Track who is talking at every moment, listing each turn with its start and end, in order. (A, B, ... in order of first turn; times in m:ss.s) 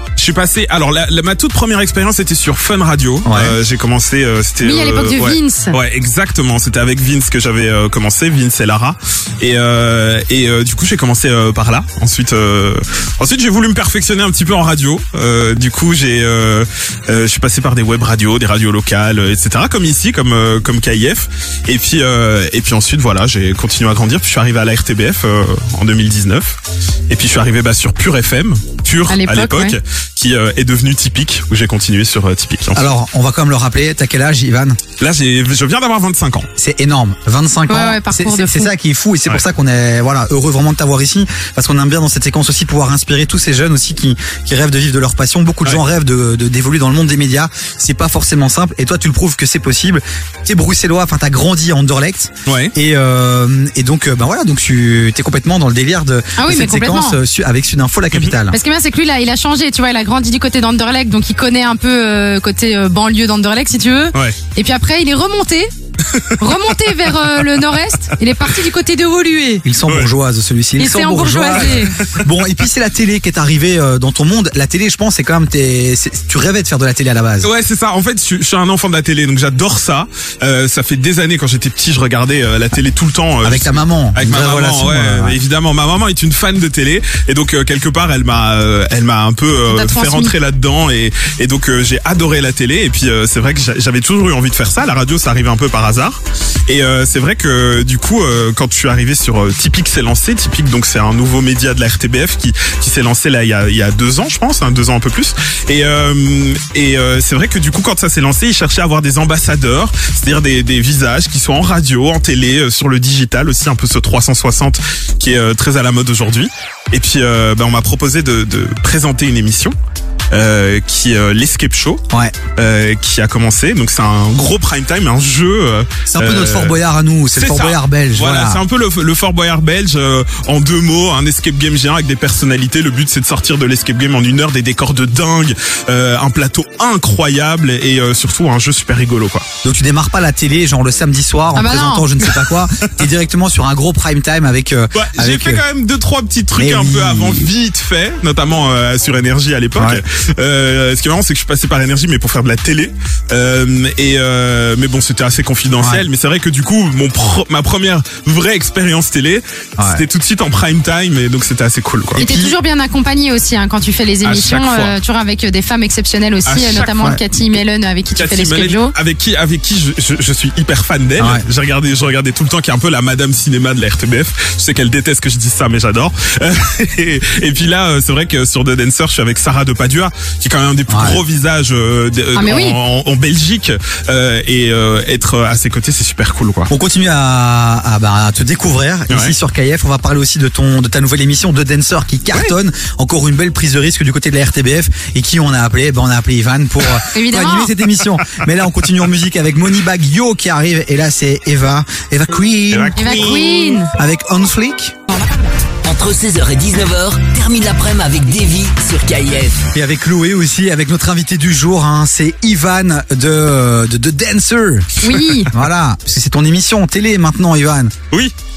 0:00.2-0:26.6 A
0:03.2-0:03.6 B
0:04.6-0:05.8 C
0:27.1-0:32.8 A
0:29.1-0:29.8 C
0:32.7-0:34.8 B
0:35.0-0:36.5 A
0:36.6-0:58.6 B
0:37.7-0:38.7 C
0:52.4-0:52.7 A
0:56.4-0:57.2 C
0:58.5-1:05.7 C
1:06.0-1:06.6 A
1:06.4-1:09.6 C
1:09.6-1:17.5 B
1:10.8-1:12.0 C
1:11.6-1:12.3 A
1:17.4-1:59.7 A
1:23.4-1:25.4 B
1:29.7-1:30.4 C
2:00.3-2:02.0 A
2:02.6-2:06.8 A
2:06.1-2:08.6 B
2:07.3-2:19.4 A
2:19.6-2:25.6 B
2:21.5-2:22.0 C
2:22.2-2:22.5 A
2:24.9-2:42.2 A
2:26.6-2:27.5 B
2:29.7-2:30.0 B
2:35.8-2:36.0 B
2:39.8-2:40.0 B
2:42.1-2:42.5 B
2:42.2-2:48.9 C
2:44.2-2:44.9 A
2:46.5-2:47.0 A
2:48.1-3:06.7 A
2:51.2-2:51.4 B
3:00.9-3:01.2 B
3:02.3-3:02.8 C
3:06.7-3:24.9 B
3:09.1-3:09.3 A
3:17.1-3:17.7 C
3:22.7-3:23.8 A
3:23.0-3:23.9 C
3:25.8-3:29.6 D
3:29.7-3:37.9 B
3:35.0-3:35.5 C